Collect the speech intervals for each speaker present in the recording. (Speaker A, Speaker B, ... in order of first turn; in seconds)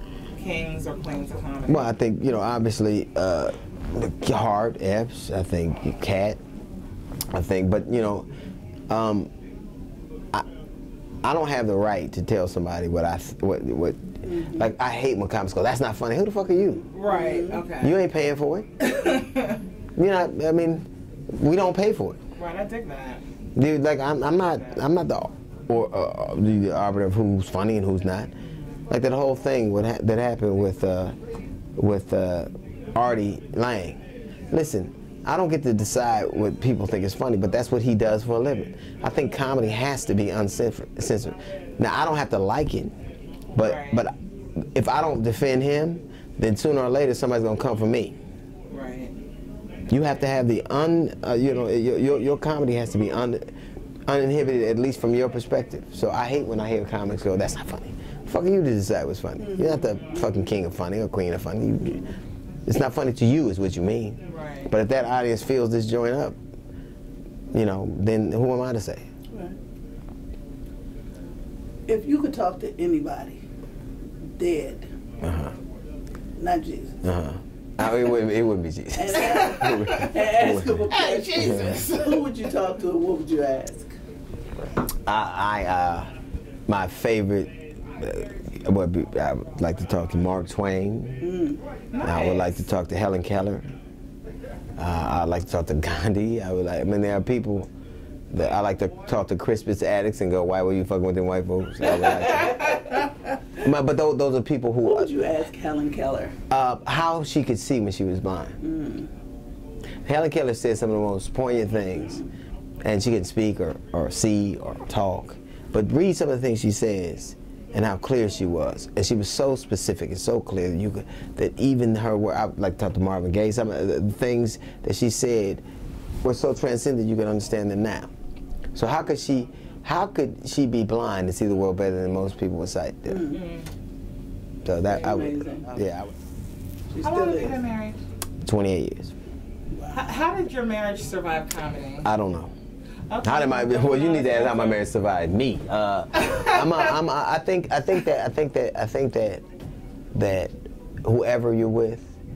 Speaker A: 0.3-1.9, 16.9-18.0, 18.8-19.6, 22.4-23.2, 28.5-28.8, 43.6-44.0, 48.7-49.1, 64.3-64.7, 79.3-80.1, 80.9-82.2, 91.9-92.6, 102.3-103.0, 133.3-133.7, 137.0-138.0, 139.9-142.1, 143.1-144.8
Speaker B: 1.7-6.4, 7.3-8.3, 8.9-9.3, 11.2-16.9, 17.8-18.7, 20.0-22.2, 23.6-28.3, 28.9-31.1, 31.8-42.9, 43.5-48.1, 49.9-53.4, 54.1-62.0, 62.6-66.4, 67.5-69.0, 75.2-75.5, 77.0-81.8, 85.0-86.1, 86.7-91.2, 92.0-93.6, 94.8-97.7, 98.3-102.8, 103.6-105.1, 106.5-108.6, 110.0-112.2, 112.8-125.6, 126.2-128.1, 128.7-133.2, 134.6-136.1, 138.4-139.1, 142.0-142.5, 143.2-149.4, 150.1-152.1
Speaker C: 14.2-14.7, 17.0-17.6, 59.4-60.3, 71.9-73.4, 74.4-74.9, 76.4-77.0, 79.0-83.9, 91.2-91.6, 104.8-106.3, 108.6-109.1, 133.1-133.4, 134.9-135.7, 136.9-137.6